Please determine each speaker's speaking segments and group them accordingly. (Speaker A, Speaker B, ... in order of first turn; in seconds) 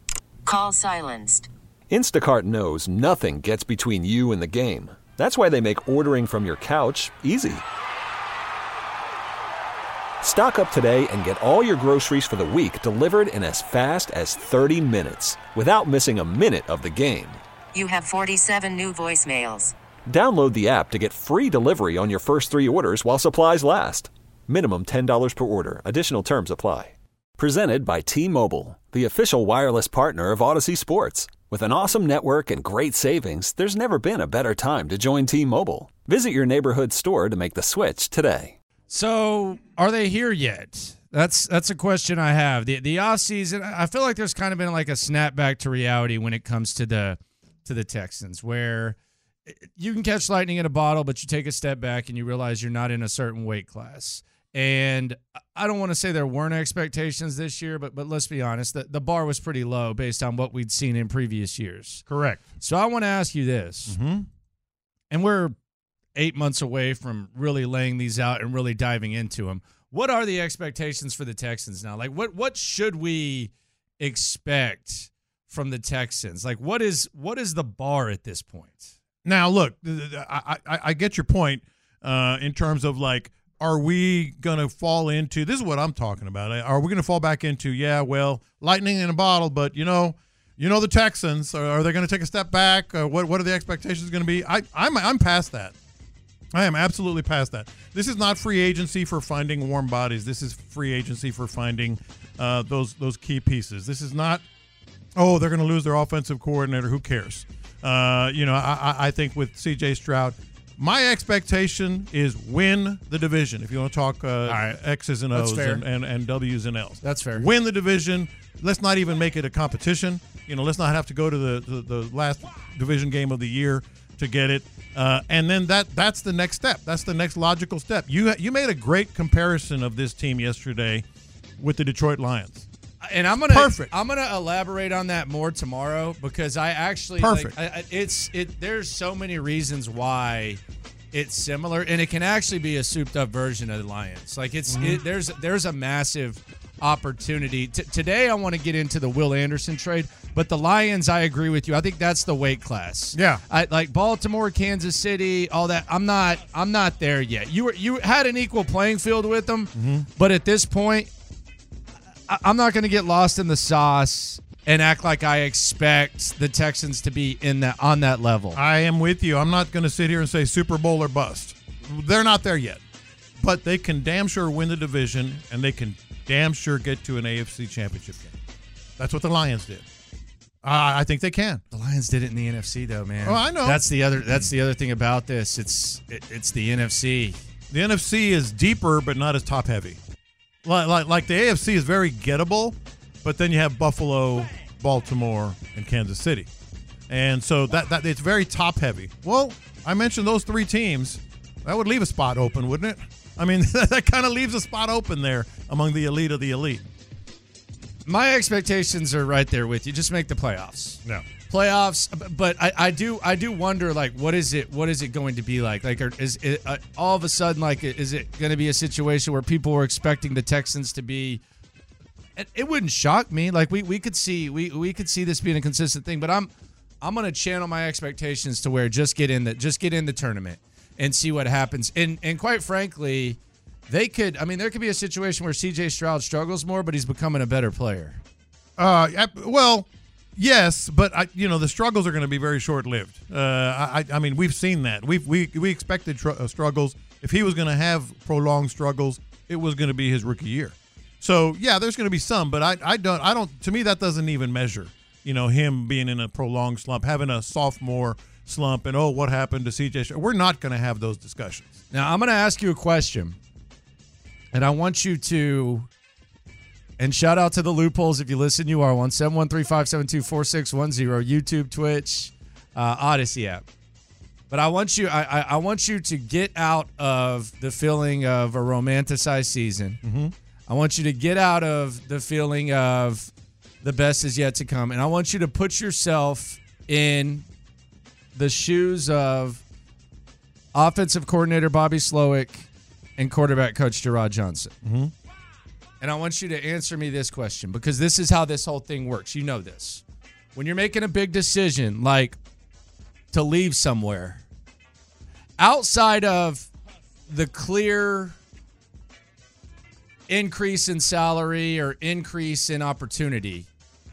Speaker A: 0.5-1.5, 17.7-19.7
Speaker B: 1.9-7.6, 10.2-17.4, 20.1-38.6
Speaker C: 38.9-49.0, 49.5-62.0, 62.6-64.0, 65.1-65.6, 66.2-78.9, 114.5-114.8, 115.3-115.8, 117.0-117.5, 133.0-140.6, 141.1-161.1, 162.3-168.6, 181.7-187.4, 208.1-221.4, 222.4-226.5, 227.0-238.2, 261.9-263.4, 264.5-265.9, 267.0-273.6, 274.5-280.0, 280.7-283.3, 283.8-287.5, 288.3-289.6, 290.7-294.7, 296.0-300.0, 300.6-302.4, 303.3-304.4, 305.6-306.7, 307.3-308.4, 310.3-313.7
Speaker D: 62.1-62.4, 63.9-64.3, 79.2-95.7, 96.5-104.4, 105.2-131.1, 131.6-132.7, 133.4-133.9, 137.2-137.5, 144.7-145.0, 153.1-153.4, 159.8-160.1, 168.6-172.8, 173.4-178.3, 179.0-179.8, 180.6-181.6, 183.2-184.5, 187.7-190.0, 190.6-196.5, 197.1-206.8, 238.8-261.8, 280.0-280.3, 294.8-295.1